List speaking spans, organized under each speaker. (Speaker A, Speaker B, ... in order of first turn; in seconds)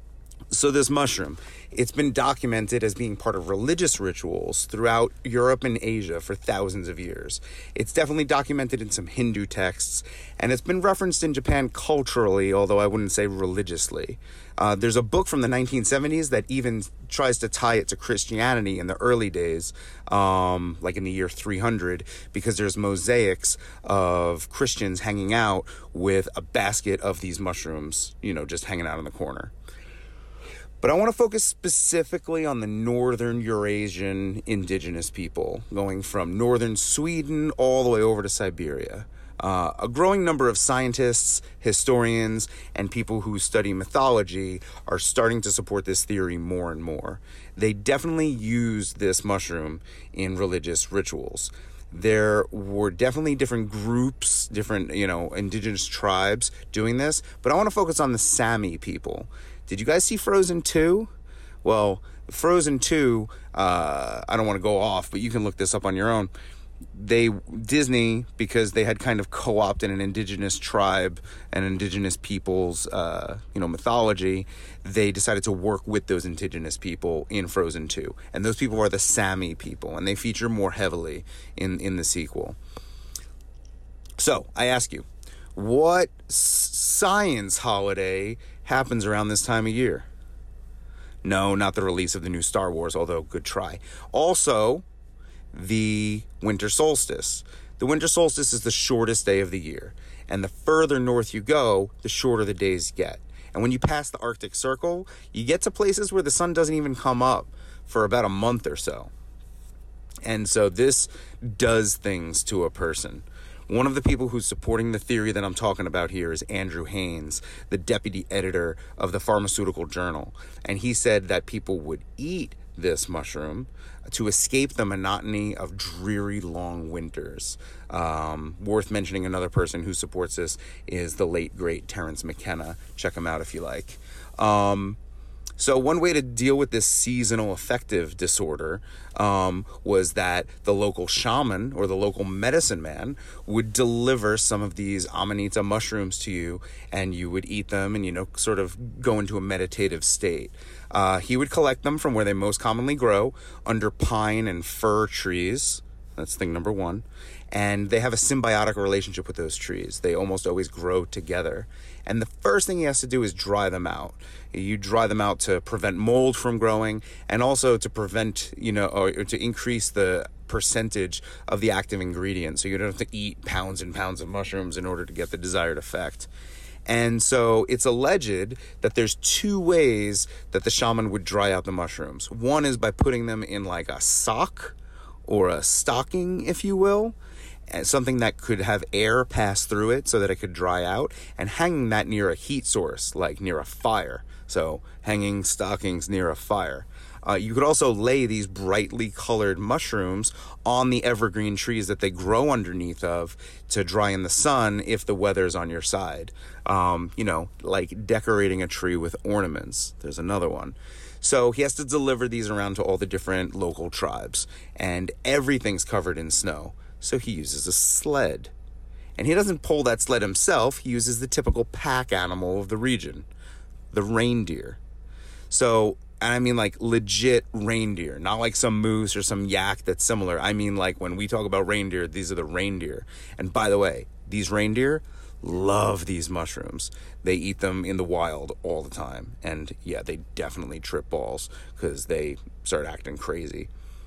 Speaker A: 0.5-29.5, 30.8-61.1, 61.6-66.3, 66.9-82.6, 84.2-90.1, 91.2-94.8, 95.5-109.1, 110.2-135.0, 135.6-176.3, 176.9-184.8, 185.3-187.2, 187.7-218.5, 219.2-223.3, 223.9-224.8, 225.5-243.7